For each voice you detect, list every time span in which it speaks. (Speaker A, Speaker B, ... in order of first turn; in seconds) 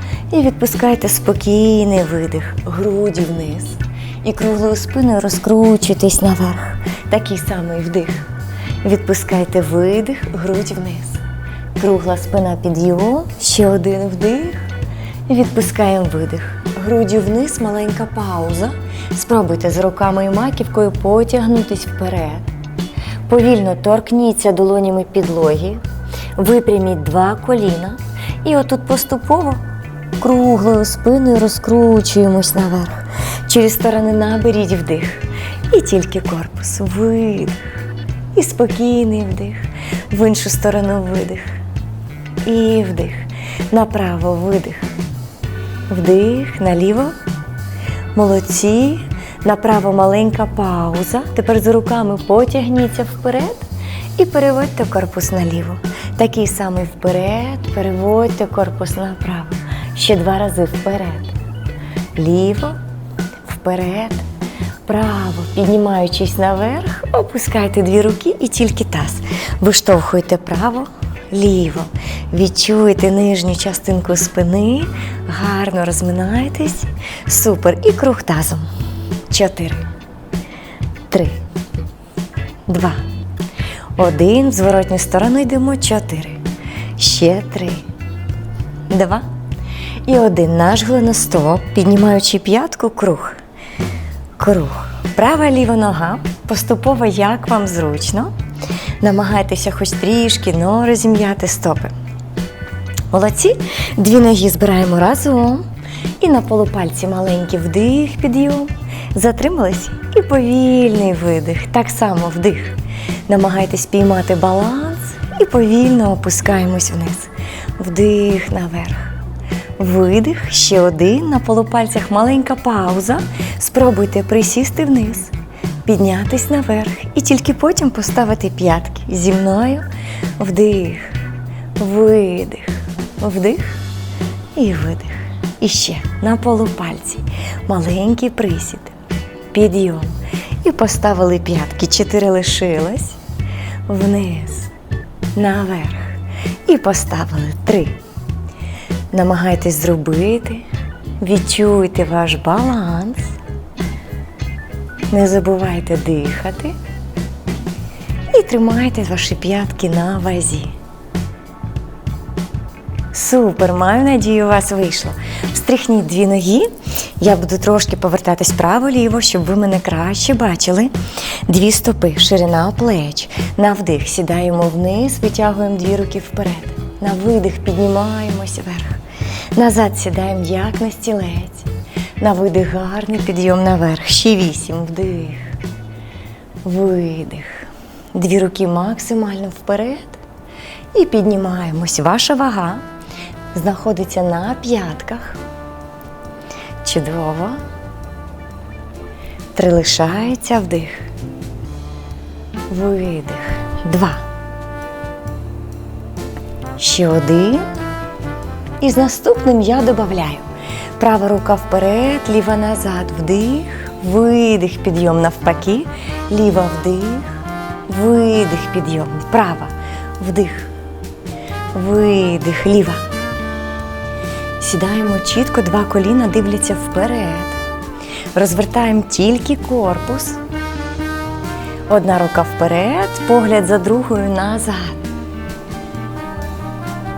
Speaker A: 0.3-8.3, 8.8-11.2, 11.8-14.6, 15.3-22.5, 23.3-25.8, 26.4-29.6, 30.2-37.6, 38.3-41.5, 42.4-44.9, 45.9-47.1, 48.1-61.3, 62.1-62.8, 63.5-64.2, 64.8-78.7, 79.3-79.8, 81.1-81.3, 82.7-83.0, 84.0-86.4, 87.0-87.8, 88.9-89.2, 90.0-93.4, 94.4-98.3, 99.0-101.9, 103.1-105.6, 106.2-119.1, 119.8-125.3, 125.8-129.8, 130.4-131.1, 131.8-133.8, 134.6-138.9, 139.5-143.2, 143.9-144.7, 145.3-148.0, 149.1-150.6, 151.2-153.4, 155.1-156.7, 158.3-160.7, 163.1-170.9, 171.5-179.0, 179.5-181.7, 182.2-185.6, 186.6-190.2, 190.9-192.8, 193.5-195.4, 196.8-197.6, 199.5-201.1, 202.7-204.2, 206.8-207.7, 208.8-210.5, 211.0-217.3, 217.9-220.7, 221.7-223.0, 224.6-227.6, 228.3-230.4, 231.9-235.1